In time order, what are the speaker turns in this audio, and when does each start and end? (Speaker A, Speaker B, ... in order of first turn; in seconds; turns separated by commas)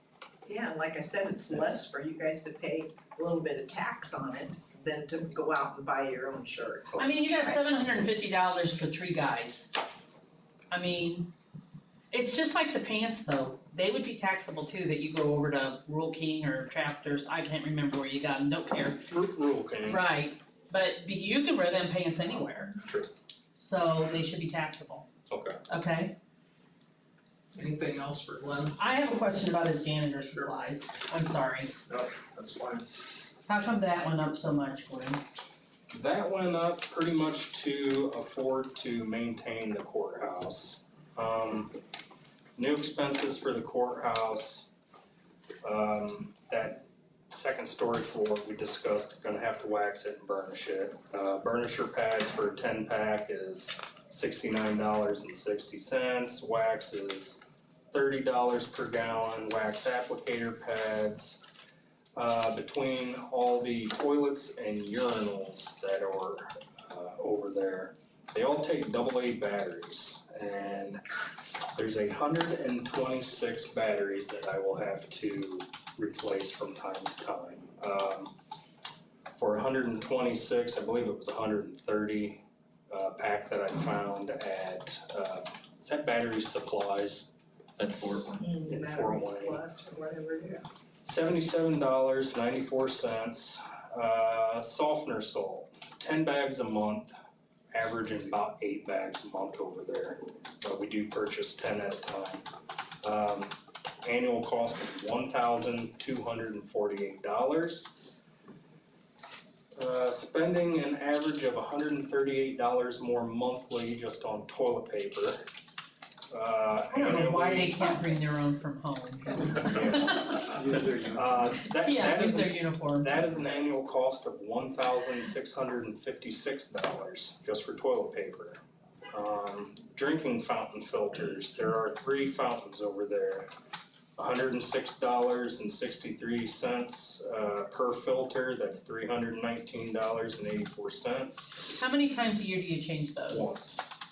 Speaker A: 0.5-7.6, Speaker B: 7.0-9.7, Speaker B: 10.7-11.3, Speaker B: 12.1-19.0, Speaker C: 19.1-20.0, Speaker B: 19.8-22.7, Speaker C: 22.8-23.1, Speaker B: 23.6-25.1, Speaker C: 25.3-25.6, Speaker B: 25.7-26.1, Speaker D: 27.5-28.8, Speaker B: 28.8-31.7, Speaker D: 31.9-32.8, Speaker B: 33.5-35.2, Speaker C: 35.9-41.7, Speaker C: 42.5-44.7, Speaker C: 45.6-61.4, Speaker C: 62.1-71.0, Speaker C: 71.7-78.3, Speaker C: 79.3-89.6, Speaker A: 88.2-90.6, Speaker C: 91.0-97.1, Speaker C: 97.7-102.5, Speaker C: 103.0-108.1, Speaker C: 109.7-115.4, Speaker C: 116.3-117.9, Speaker B: 116.9-120.8, Speaker C: 119.6-120.5, Speaker D: 120.5-121.2, Speaker C: 121.0-128.6, Speaker B: 121.8-123.3, Speaker C: 129.1-133.5, Speaker C: 134.2-141.7, Speaker B: 141.7-143.6, Speaker C: 143.3-143.9